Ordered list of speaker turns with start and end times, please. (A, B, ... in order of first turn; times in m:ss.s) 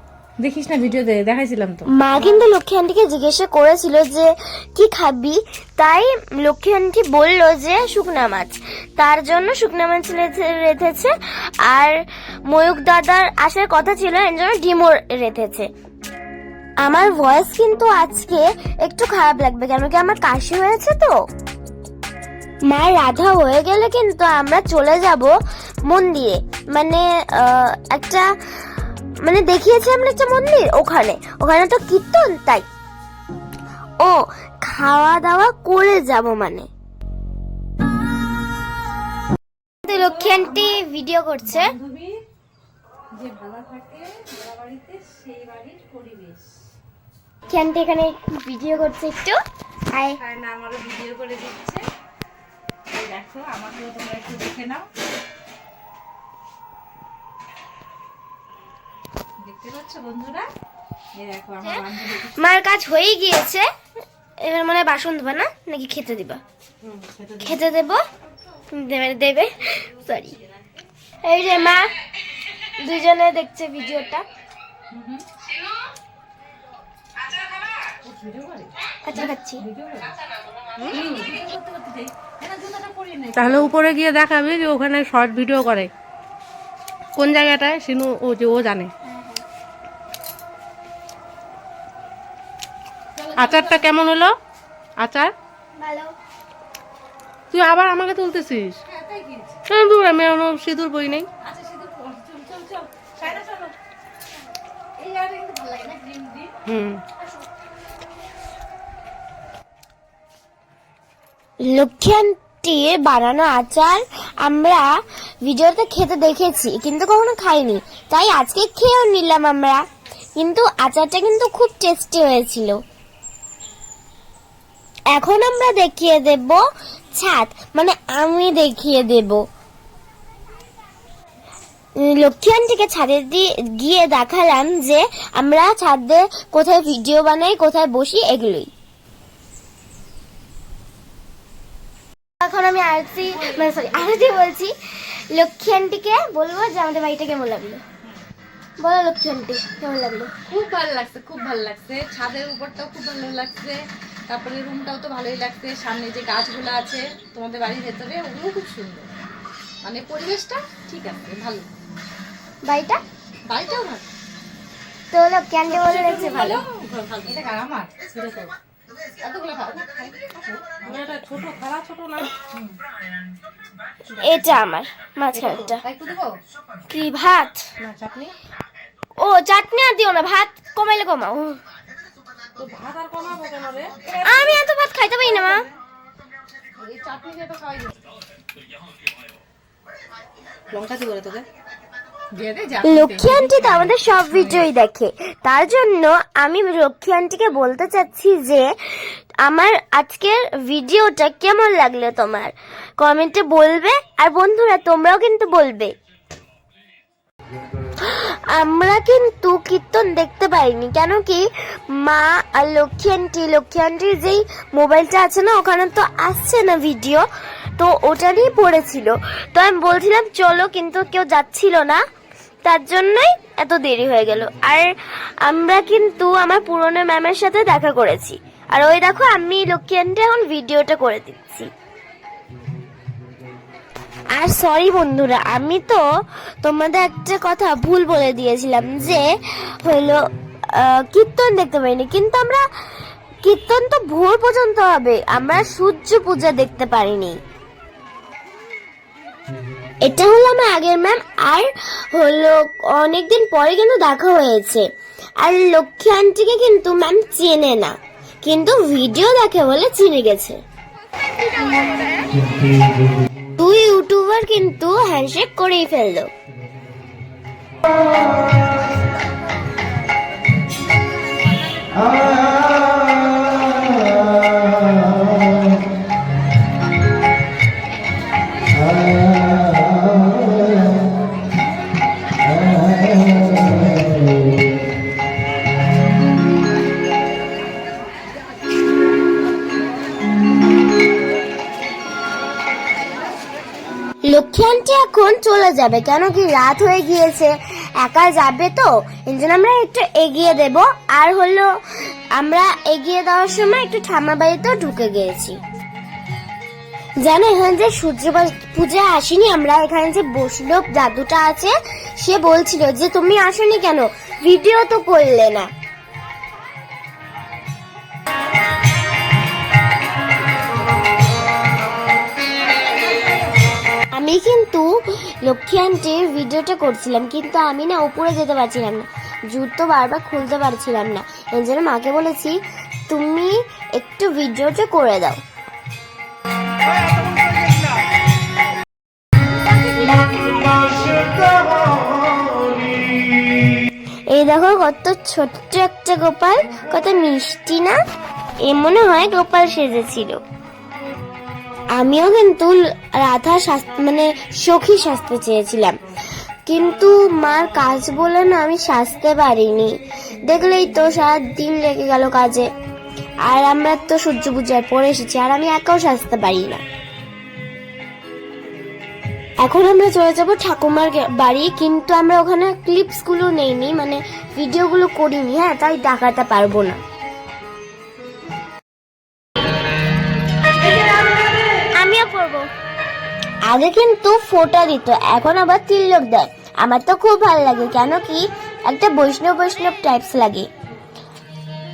0:00.4-0:01.8 A
0:01.9-0:11.1 B
0:02.1-0:02.4 C
0:11.7-0:15.7 B
0:16.8-0:21.2 B
0:22.7-0:25.3 B
0:25.8-0:28.3 B
0:29.2-0:32.7 B
0:34.0-0:36.7 B
0:39.8-0:41.7 B
0:39.8-0:40.8 A
0:41.4-0:42.2 A
0:43.1-0:46.6 A
0:47.5-0:49.4 B
0:49.9-0:50.2 B
0:50.1-0:51.8 A
0:52.9-0:54.9 A
0:59.4-1:00.5 A
1:01.1-1:02.4 A
1:02.4-1:03.7 B
1:04.4-1:06.4 B
1:06.8-1:07.5 C
1:07.4-1:08.0 B
1:08.7-1:10.4 B
1:11.2-1:11.9 B
1:12.8-1:14.2 B
1:14.9-1:15.2 A
1:17.8-1:20.1 A
1:19.0-1:19.6 B
1:20.8-1:23.8 A
1:23.3-1:25.9 C
1:27.2-1:28.9 C
1:29.0-1:29.4 B
1:33.2-1:33.9 A
1:33.4-1:34.4 C
1:35.0-1:35.3 C
1:35.8-1:36.1 B
1:37.5-1:38.8 C
1:38.8-1:39.6 A
1:39.7-1:41.3 C
1:41.4-1:43.7 A
1:45.0-1:46.5 A
1:46.6-1:47.0 C
1:51.6-1:54.9 B
1:55.4-1:59.8 B
2:00.4-2:02.8 B
2:05.1-2:09.4 B
2:12.0-2:18.7 B
2:22.4-2:27.8 B
2:23.2-2:24.3 A
2:28.8-2:30.3 B
2:30.5-2:39.1 A
2:39.8-2:41.6 A
2:42.6-2:43.0 B
2:43.5-2:44.0 A
2:45.1-2:46.6 B
2:45.7-2:47.9 A
2:46.8-2:47.4 C
2:48.1-2:48.6 C
2:49.2-2:51.1 A
2:50.8-2:52.3 C
2:54.1-2:55.8 B
2:55.4-2:56.4 A
2:56.9-2:57.6 B
2:57.8-2:58.3 C
2:59.2-3:01.6 B
3:02.6-3:04.6 A
3:04.2-3:05.7 B
3:06.8-3:08.0 A
3:10.7-3:11.4 C
3:12.3-3:14.7 A
3:12.8-3:25.9 B
3:28.0-3:37.2 B
3:37.8-3:42.0 B
3:42.6-3:44.9 B
3:45.4-3:51.7 B
3:54.3-3:56.0 B
3:56.6-3:59.2 B
3:59.8-4:02.6 B
4:03.4-4:07.4 B
4:10.0-4:14.9 B
4:15.4-4:20.6 B
4:23.6-4:26.3 B
4:54.2-5:01.8 B
5:02.3-5:05.6 B
5:07.2-5:15.7 B
5:24.1-5:35.4 B
5:40.7-5:41.2 A
5:44.3-5:48.0 B
5:48.6-5:50.4 B
5:52.0-5:56.0 B
5:56.7-5:59.9 B
6:00.4-6:02.7 B
6:03.4-6:06.8 B
6:09.6-6:17.0 B
6:21.9-6:22.7 B
6:23.6-6:30.7 B